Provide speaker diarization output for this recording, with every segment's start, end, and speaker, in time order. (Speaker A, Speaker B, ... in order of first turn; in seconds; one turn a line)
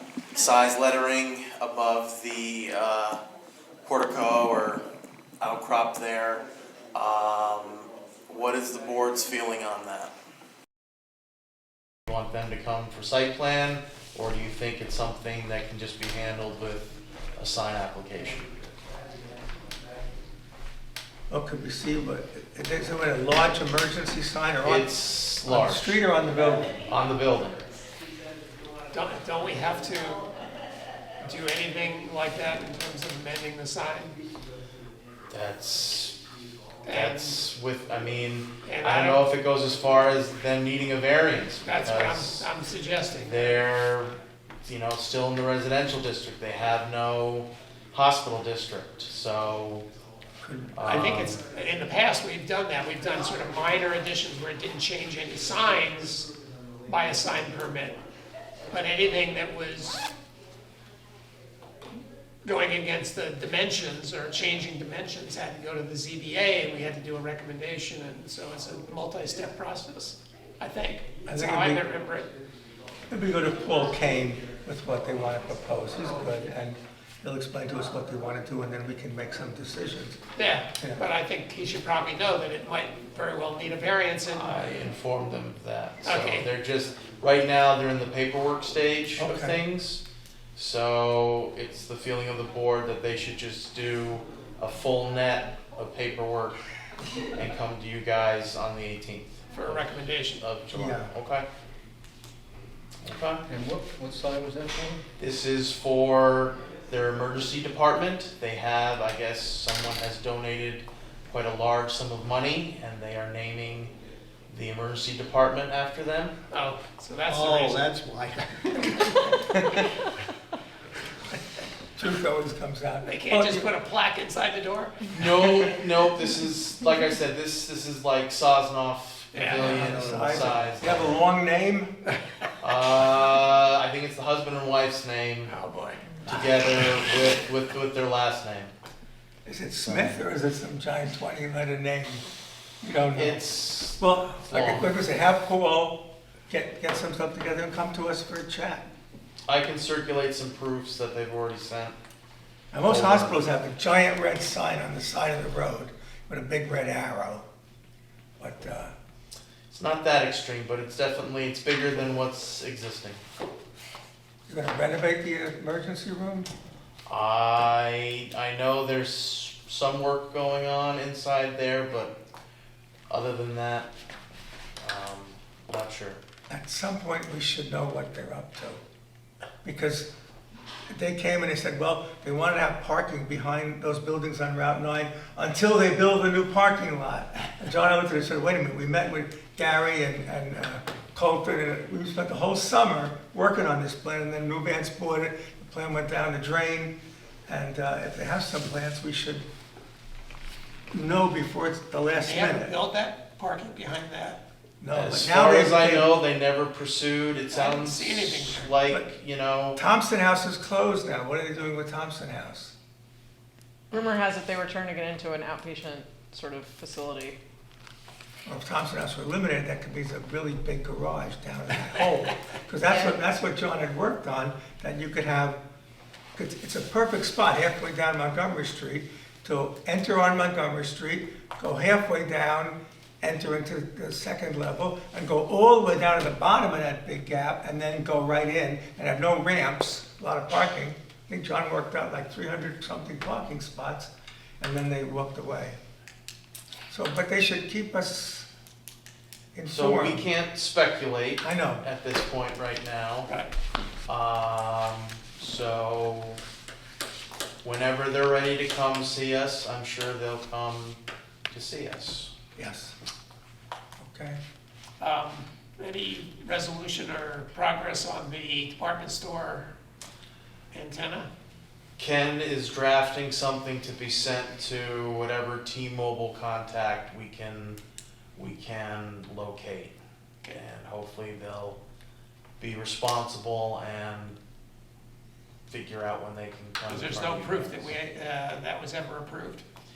Speaker A: 0.3-3.2
Speaker A: 3.8-4.8
Speaker A: 5.4-10.1
Speaker A: 12.1-18.5
Speaker B: 21.3-24.9
Speaker A: 24.6-26.0
Speaker B: 25.4-26.7
Speaker A: 26.7-27.6
Speaker C: 28.9-30.2
Speaker C: 31.2-34.2
Speaker A: 35.3-36.2
Speaker C: 36.9-37.4
Speaker A: 36.9-42.5
Speaker C: 38.6-39.2
Speaker C: 41.6-43.6
Speaker A: 43.1-49.9
Speaker B: 50.4-51.2
Speaker A: 50.7-51.4
Speaker C: 50.9-56.3
Speaker C: 56.9-58.0
Speaker C: 58.7-60.1
Speaker C: 62.4-72.3
Speaker B: 71.3-71.8
Speaker B: 73.1-80.2
Speaker C: 80.3-84.5
Speaker B: 80.8-81.0
Speaker A: 84.3-90.0
Speaker C: 86.0-86.5
Speaker B: 89.2-89.6
Speaker A: 90.5-96.6
Speaker A: 97.4-101.4
Speaker C: 99.5-100.4
Speaker B: 100.7-101.1
Speaker A: 103.0-103.4
Speaker D: 103.5-105.0
Speaker A: 105.2-113.9
Speaker A: 114.5-116.3
Speaker C: 116.5-117.9
Speaker D: 117.2-119.3
Speaker B: 122.0-123.7
Speaker C: 123.0-125.1
Speaker A: 125.1-131.2
Speaker C: 129.3-130.2
Speaker B: 129.6-131.9
Speaker A: 132.6-135.6
Speaker C: 135.5-136.2
Speaker A: 136.2-138.7
Speaker B: 139.4-142.2
Speaker A: 139.8-140.2
Speaker B: 142.8-148.9
Speaker A: 143.1-144.9
Speaker A: 149.5-151.9
Speaker B: 152.7-157.4
Speaker A: 152.8-153.4
Speaker B: 158.4-158.9
Speaker A: 159.7-163.2
Speaker B: 164.5-166.5
Speaker A: 167.1-172.2
Speaker A: 173.1-173.9
Speaker A: 174.8-176.2
Speaker B: 176.5-178.8
Speaker B: 179.6-180.1
Speaker B: 180.9-196.9
Speaker B: 197.5-199.4
Speaker B: 200.9-202.7
Speaker C: 202.2-204.4
Speaker B: 204.8-206.1
Speaker A: 204.9-209.8
Speaker C: 207.5-208.7
Speaker B: 209.8-212.8
Speaker E: 213.9-217.4
Speaker B: 218.4-225.6
Speaker B: 226.3-245.8
Speaker B: 246.9-248.5
Speaker B: 249.5-250.2
Speaker A: 249.7-253.3
Speaker B: 251.4-251.8
Speaker C: 253.3-253.5
Speaker A: 254.1-256.4
Speaker A: 257.6-261.0
Speaker A: 261.5-262.3
Speaker B: 262.6-262.9
Speaker B: 264.0-264.4
Speaker C: 265.0-269.7
Speaker C: 270.7-271.3
Speaker A: 272.0-277.8
Speaker A: 278.4-281.8
Speaker A: 282.6-284.4
Speaker A: 285.7-287.9
Speaker C: 286.9-289.6